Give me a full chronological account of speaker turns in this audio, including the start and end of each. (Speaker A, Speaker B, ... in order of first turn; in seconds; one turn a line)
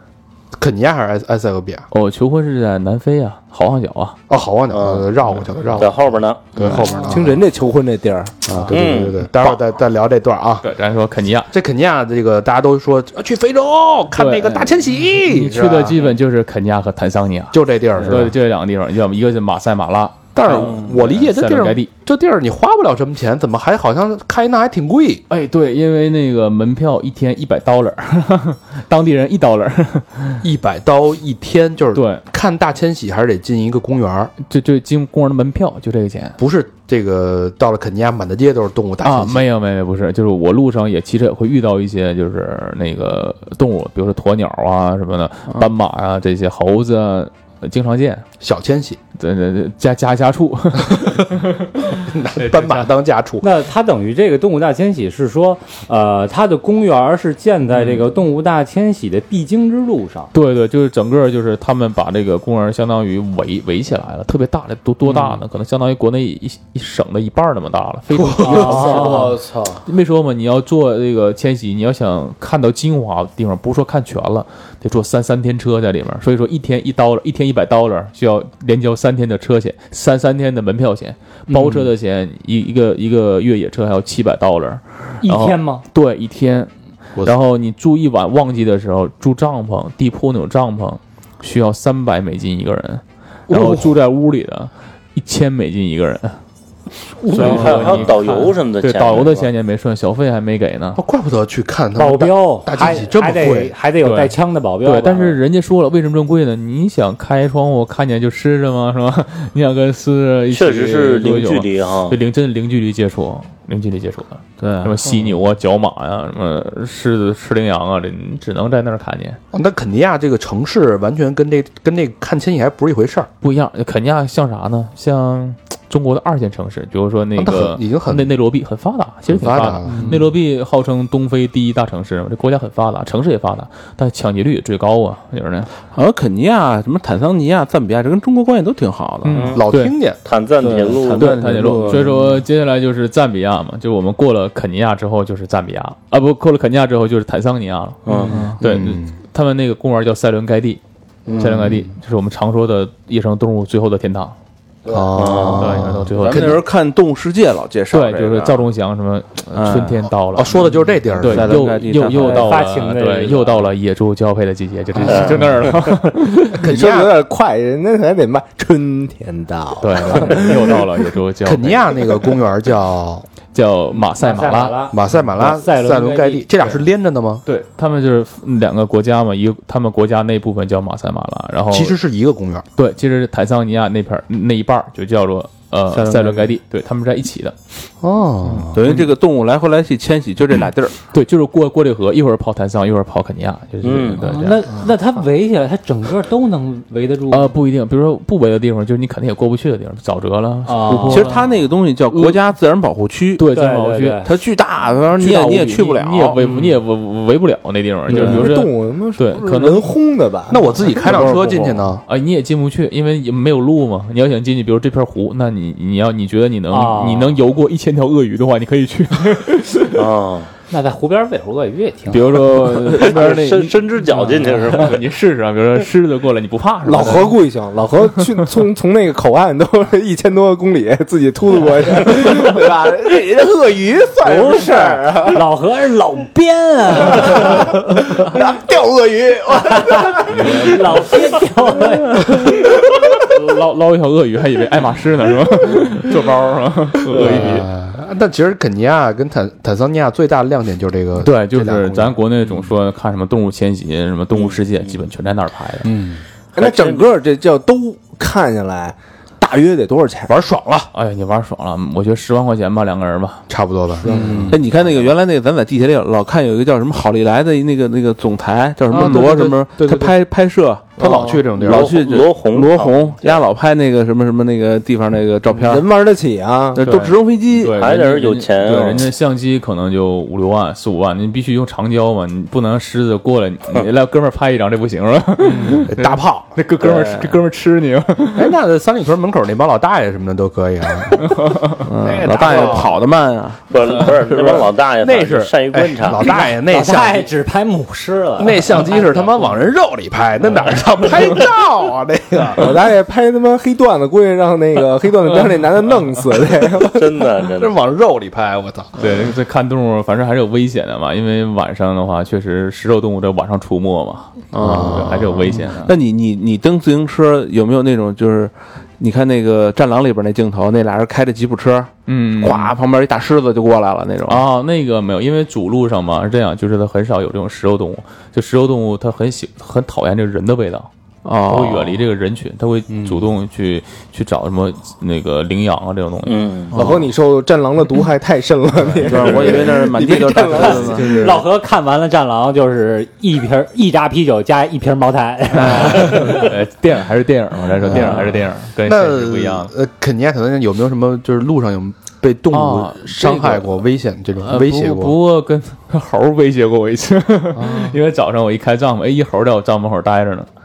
Speaker A: 0.6-1.9
Speaker B: 1.9-4.2
Speaker A: 4.3-7.4
Speaker C: 4.7-5.1
Speaker C: 5.8-6.5
Speaker B: 6.6-7.1
Speaker D: 6.6-8.3
Speaker A: 8.5-10.7
Speaker C: 8.7-9.2
Speaker B: 10.6-11.5
Speaker A: 11.5-16.0
Speaker B: 14.2-21.9
Speaker A: 17.5-18.3
Speaker A: 20.4-25.2
Speaker B: 25.3-30.4
Speaker A: 30.4-34.3
Speaker B: 31.9-32.2
Speaker B: 34.4-36.4
Speaker A: 36.4-39.4
Speaker B: 39.0-48.2
Speaker A: 48.4-49.0
Speaker B: 49.2-52.9
Speaker A: 52.0-53.5
Speaker E: 53.4-60.3
Speaker B: 57.7-58.0
Speaker B: 60.3-86.7
Speaker E: 65.1-65.4
Speaker A: 68.1-69.8
Speaker E: 68.4-69.4
Speaker E: 85.2-85.8
Speaker B: 87.2-96.4
Speaker A: 93.5-94.0
Speaker B: 97.2-101.0
Speaker E: 97.3-97.8
Speaker C: 97.3-99.5
Speaker A: 101.0-103.8
Speaker E: 102.0-105.4
Speaker B: 104.0-119.4
Speaker C: 110.5-112.2
Speaker F: 114.6-115.0
Speaker A: 119.5-123.3
Speaker B: 123.4-135.7
Speaker A: 127.4-128.3
Speaker A: 129.3-130.2
Speaker F: 135.9-139.6
Speaker B: 139.2-139.9
Speaker C: 139.3-139.6
Speaker A: 139.5-140.2
Speaker C: 140.2-141.5
Speaker F: 140.6-142.4
Speaker B: 141.1-150.8
Speaker C: 148.1-148.4
Speaker F: 148.2-148.6
Speaker A: 148.6-149.2
Speaker A: 151.3-151.9
Speaker B: 151.4-154.4
Speaker A: 154.9-156.6
Speaker C: 155.2-155.8
Speaker B: 155.6-156.6
Speaker F: 156.1-158.6
Speaker B: 157.9-160.6
Speaker F: 159.6-160.1
Speaker A: 160.3-161.6
Speaker B: 161.2-166.6
Speaker F: 161.2-162.5
Speaker E: 162.1-163.7
Speaker A: 165.0-165.4
Speaker C: 165.1-165.4
Speaker A: 166.6-167.1
Speaker D: 166.6-170.9
Speaker B: 169.8-172.0
Speaker A: 171.4-173.3
Speaker B: 173.5-174.8
Speaker E: 174.0-176.5
Speaker A: 174.9-177.4
Speaker B: 177.5-182.0
Speaker A: 181.7-182.7
Speaker B: 182.8-187.6
Speaker F: 185.9-186.5
Speaker A: 188.0-188.8
Speaker F: 188.7-191.0
Speaker B: 191.1-194.7
Speaker C: 193.8-194.3
Speaker E: 194.2-197.6
Speaker B: 197.3-202.4
Speaker E: 200.7-201.4
Speaker F: 201.1-203.5
Speaker B: 203.4-204.3
Speaker E: 203.5-204.4
Speaker F: 204.2-206.4
Speaker B: 205.2-209.9
Speaker E: 206.4-206.8
Speaker D: 208.1-211.2
Speaker A: 210.5-212.0
Speaker F: 211.0-211.9
Speaker B: 212.1-220.0
Speaker E: 216.7-217.4
Speaker C: 219.9-220.5
Speaker E: 220.7-222.4
Speaker B: 222.1-227.4
Speaker F: 222.2-223.7
Speaker C: 223.0-225.0
Speaker D: 226.8-235.4
Speaker E: 234.2-238.1
Speaker D: 237.0-241.0
Speaker E: 239.7-242.5
Speaker B: 243.2-247.7
Speaker A: 247.1-252.2
Speaker B: 251.2-255.9
Speaker C: 254.3-254.9
Speaker A: 255.8-256.2
Speaker C: 256.6-257.1
Speaker D: 256.6-260.3
Speaker A: 260.3-260.9
Speaker B: 260.9-263.4
Speaker A: 263.5-264.6
Speaker D: 264.0-264.6
Speaker F: 264.5-275.9
Speaker B: 264.5-265.1
Speaker A: 268.9-270.1
Speaker D: 268.9-269.2
Speaker A: 271.0-271.9
Speaker C: 271.6-273.4
Speaker D: 275.5-276.9
Speaker F: 276.7-277.8
Speaker B: 276.8-288.5
Speaker C: 277.8-279.1
Speaker A: 285.9-286.5
Speaker F: 286.8-287.4
Speaker A: 288.4-293.0
Speaker B: 291.3-291.8
Speaker F: 291.8-294.1
Speaker C: 293.7-296.3
Speaker A: 294.3-297.3
Speaker E: 296.1-299.4
Speaker A: 298.4-302.7
Speaker D: 302.6-307.3
Speaker C: 306.9-307.8
Speaker A: 307.6-308.9
Speaker B: 309.0-316.0
Speaker F: 314.5-324.4
Speaker A: 314.6-315.3
Speaker B: 322.1-322.8
Speaker B: 324.3-330.9
Speaker F: 331.2-332.0
Speaker B: 331.4-336.9
Speaker A: 332.9-333.2
Speaker C: 336.3-336.7
Speaker D: 336.7-341.4
Speaker F: 339.0-341.4
Speaker E: 340.5-346.5
Speaker F: 345.6-346.2
Speaker B: 345.9-349.7
Speaker A: 347.9-355.2
Speaker B: 352.5-353.9
Speaker B: 354.4-360.5
Speaker A: 357.6-358.0